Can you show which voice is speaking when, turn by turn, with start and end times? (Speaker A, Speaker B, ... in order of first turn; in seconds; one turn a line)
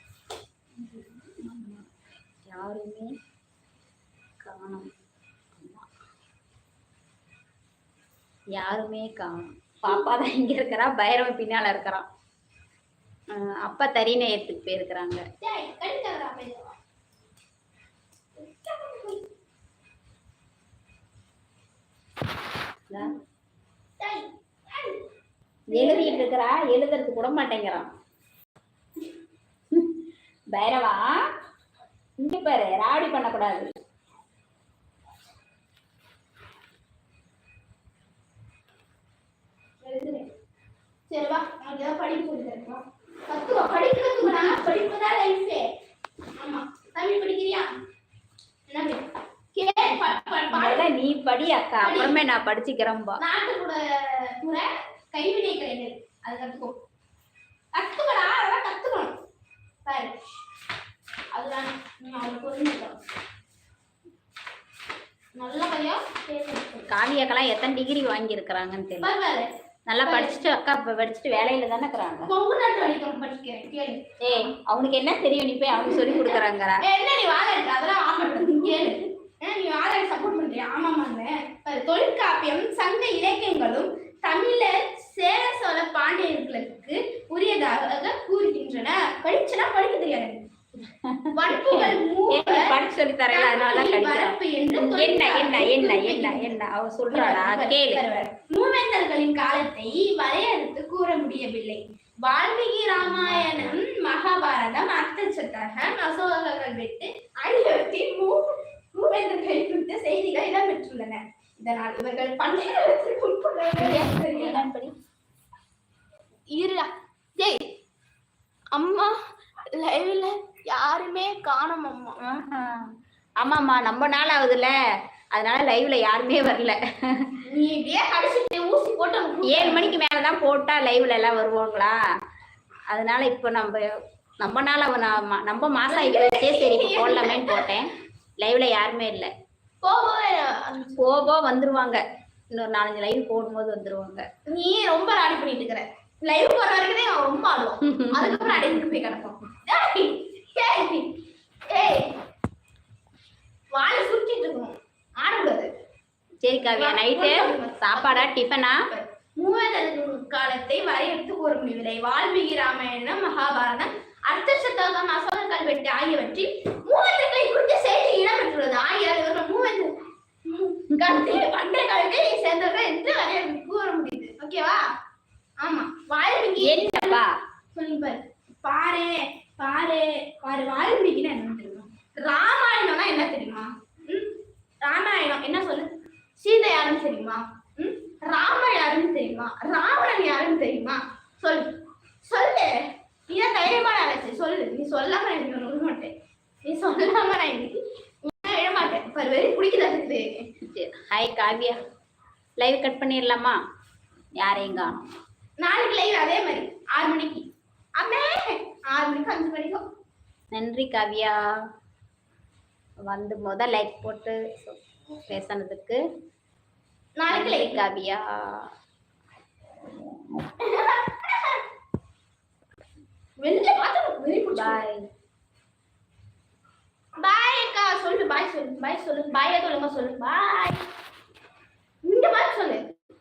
Speaker A: 0.7-1.4
Speaker B: 1.4-1.9
Speaker B: 2.5-3.1
Speaker B: 4.4-4.9
Speaker B: 5.5-5.9
Speaker B: 8.6-12.1
Speaker B: 13.3-15.2
Speaker A: 15.4-16.8
Speaker A: 18.4-19.3
Speaker B: 22.9-23.1
Speaker A: 24.0-25.0
Speaker A: 25.7-26.3
Speaker B: 25.7-27.9
Speaker B: 30.5-31.2
Speaker B: 32.2-33.7
Speaker A: 39.8-40.3
Speaker A: 41.1-45.7
Speaker A: 46.4-47.7
Speaker A: 48.7-50.9
Speaker B: 50.5-53.2
Speaker A: 51.8-52.2
Speaker A: 53.2-56.8
Speaker A: 57.7-59.1
Speaker A: 59.8-60.2
Speaker A: 61.3-63.0
Speaker A: 65.3-66.9
Speaker B: 66.9-69.1
Speaker A: 69.0-69.5
Speaker B: 69.9-72.3
Speaker A: 70.0-70.4
Speaker A: 72.2-74.4
Speaker B: 74.2-76.8
Speaker A: 75.7-90.5
Speaker B: 90.9-98.0
Speaker A: 91.3-92.8
Speaker A: 93.3-96.5
Speaker A: 97.1-114.7
Speaker B: 103.0-103.8
Speaker B: 113.8-114.9
Speaker A: 116.5-117.8
Speaker A: 118.7-119.1
Speaker A: 119.7-122.2
Speaker B: 122.2-122.9
Speaker B: 123.4-124.7
Speaker B: 125.3-127.3
Speaker A: 127.5-129.9
Speaker B: 129.4-132.0
Speaker B: 132.9-133.9
Speaker B: 134.4-139.3
Speaker A: 135.9-137.8
Speaker A: 139.8-141.3
Speaker B: 141.0-144.2
Speaker A: 144.5-152.2
Speaker B: 147.8-148.8
Speaker A: 153.7-155.7
Speaker B: 156.4-158.9
Speaker A: 156.7-158.3
Speaker A: 158.8-174.8
Speaker B: 170.9-171.4
Speaker A: 175.6-177.2
Speaker B: 176.6-177.3
Speaker A: 177.7-200.4
Speaker B: 200.6-201.8
Speaker B: 202.6-203.6
Speaker B: 204.4-205.0
Speaker A: 205.6-209.8
Speaker B: 210.5-211.4
Speaker B: 213.1-216.0
Speaker A: 217.2-217.8
Speaker B: 217.3-218.7
Speaker A: 220.6-221.6
Speaker A: 223.4-224.8
Speaker B: 224.5-225.0
Speaker A: 227.2-230.8
Speaker A: 232.0-232.9